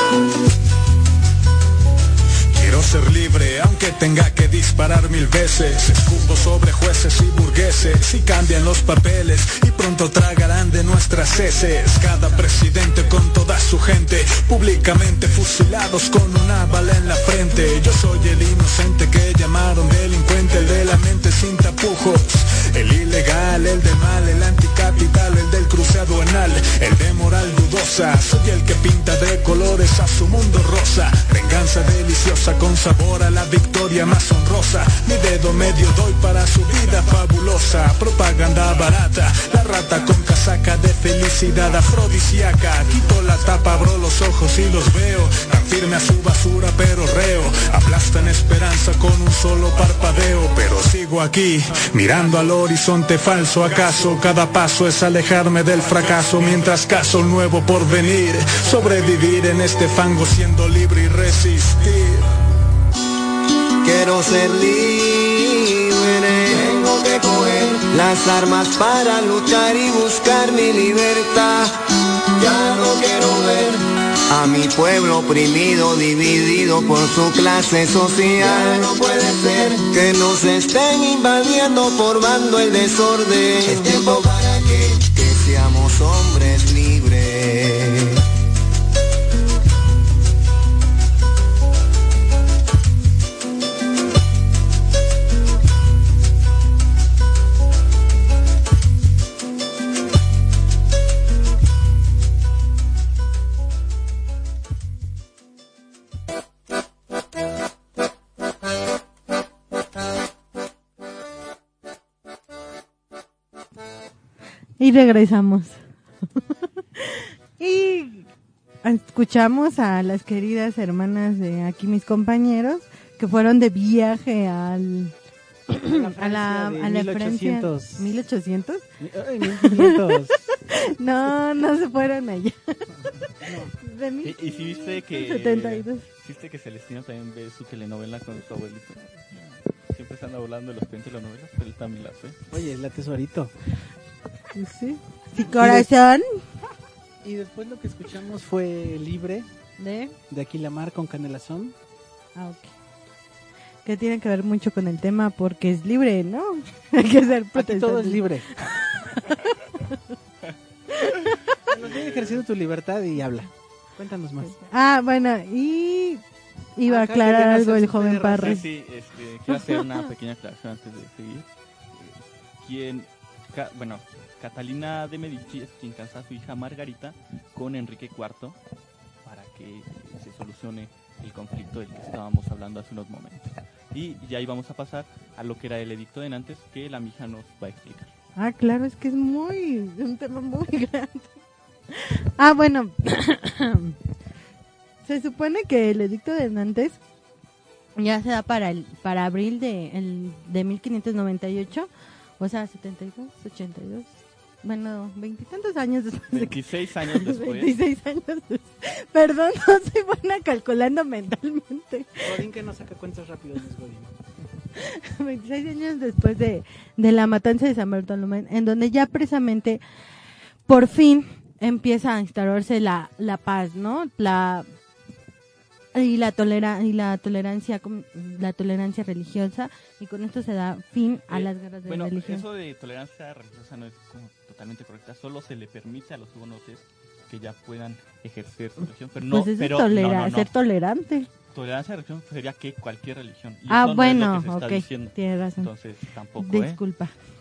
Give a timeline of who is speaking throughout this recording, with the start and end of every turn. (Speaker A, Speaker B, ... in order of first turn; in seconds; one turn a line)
Speaker A: 2.5-62.3
Speaker B: 63.8-71.8
Speaker B: 72.4-88.2
Speaker C: 114.8-115.8
Speaker C: 117.0-118.3
Speaker C: 118.8-125.1
Speaker C: 125.7-128.9
Speaker D: 125.9-128.1
Speaker D: 129.0-130.5
Speaker C: 129.6-129.9
Speaker C: 130.7-132.6
Speaker D: 133.4-133.7
Speaker C: 133.8-136.1
Speaker E: 134.2-142.4
Speaker D: 142.5-143.5
Speaker C: 144.6-146.2
Speaker D: 145.5-145.9
Speaker D: 147.2-149.5
Speaker C: 149.8-150.2
Speaker D: 150.3-151.7
Speaker C: 152.3-152.7
Speaker C: 153.8-158.2
Speaker D: 157.6-158.5
Speaker C: 158.9-159.9
Speaker C: 161.0-161.4
Speaker D: 161.7-164.5
Speaker E: 161.8-162.4
Speaker C: 164.4-166.2
Speaker C: 166.8-168.6
Speaker D: 166.8-168.6
Speaker E: 168.4-178.6
Speaker C: 169.5-169.8
Speaker E: 179.2-188.1
Speaker C: 188.4-191.3
Speaker C: 191.9-193.9
Speaker C: 195.1-197.0
Speaker C: 198.0-206.5
Speaker E: 206.3-207.7
Speaker C: 207.1-212.3
Speaker D: 212.2-214.1
Speaker C: 214.8-219.8
Speaker C: 220.7-224.7
Speaker C: 225.9-232.5
Speaker E: 231.3-240.5
Speaker C: 239.3-241.3
Speaker E: 241.5-246.8
Speaker C: 243.7-245.7
Speaker C: 246.4-247.1